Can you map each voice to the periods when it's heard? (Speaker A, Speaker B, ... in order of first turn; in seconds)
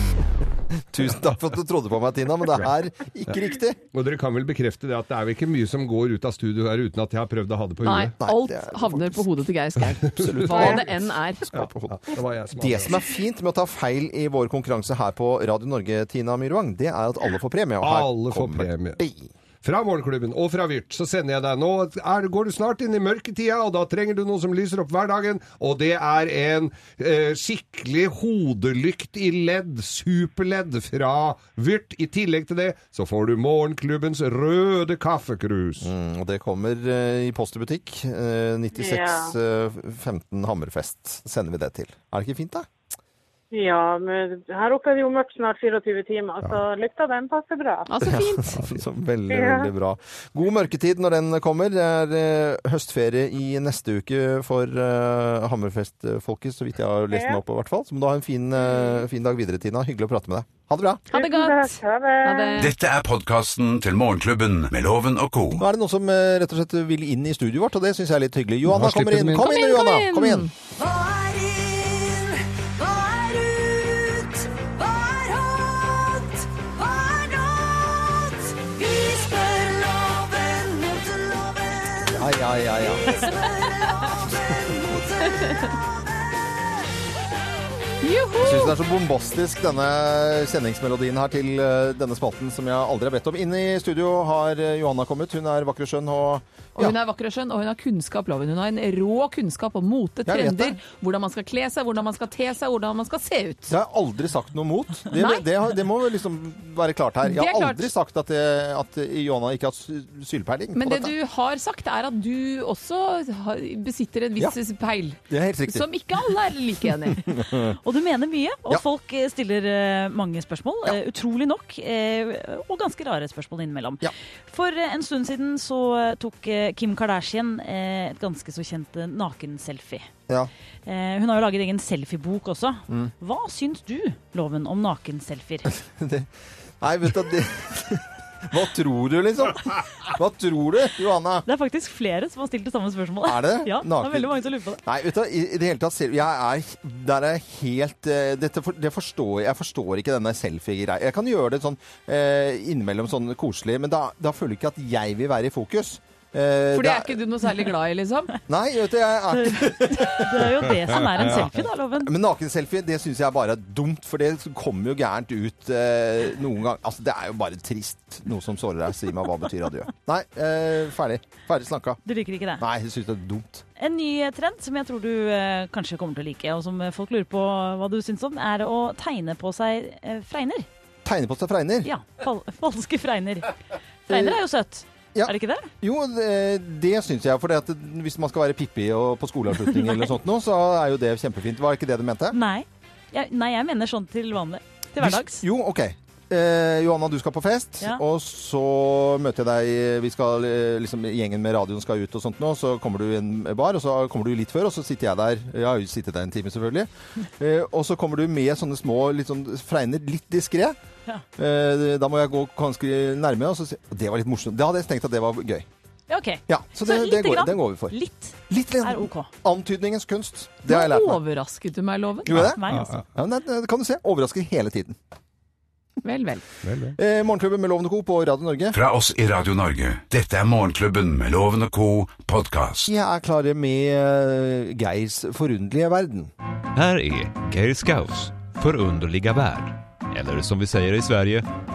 Speaker A: 0.9-3.8, 8.2-9.4, 10.0-19.3, 35.8-42.7, 48.0-61.0, 65.6-70.5, 82.1-83.2, 88.4-97.0, 100.2-100.8, 103.7-111.1, 115.3-115.9, 117.1-117.8, 135.7-136.3, 136.8-141.5, 143.2-157.2, 158.5-160.6, 162.0-172.0, 172.6-173.6, 181.0-181.9, 184.1-184.4, 185.1-192.4, 195.0-210.8, 211.4-215.7, 216.5-221.2, 222.2-225.0, 226.9-228.8, 232.8-236.3
Speaker B: 3.9-8.1, 10.0-10.8, 11.5-13.0, 17.8-19.0, 19.6-35.9, 48.5-48.8, 68.6-69.5, 160.6-161.6, 222.3-223.0, 226.6-227.0
Speaker C: 7.8-11.4, 47.9-48.5, 61.1-62.7, 69.3-70.5, 88.0-88.8, 96.8-103.7, 105.1-105.4, 107.2-107.9, 110.7-117.3, 156.7-158.3, 220.7-222.4, 226.0-226.4
Speaker D: 38.8-39.3, 43.5-47.9, 49.3-49.7, 57.1-57.4, 61.1-62.6
Speaker E: 62.6-65.6, 228.7-232.9
Speaker F: 70.8-71.6, 76.8-77.5, 78.6-81.5, 84.7-85.7
Speaker G: 83.1-83.9, 85.4-85.7, 117.8-130.1, 130.8-135.7, 141.4-144.8, 159.3-162.1, 172.0-172.6, 173.8-180.7, 181.8-183.6, 184.1-185.7, 192.3-195.4, 216.1-219.3, 222.4-223.0
Speaker H: 236.7-241.5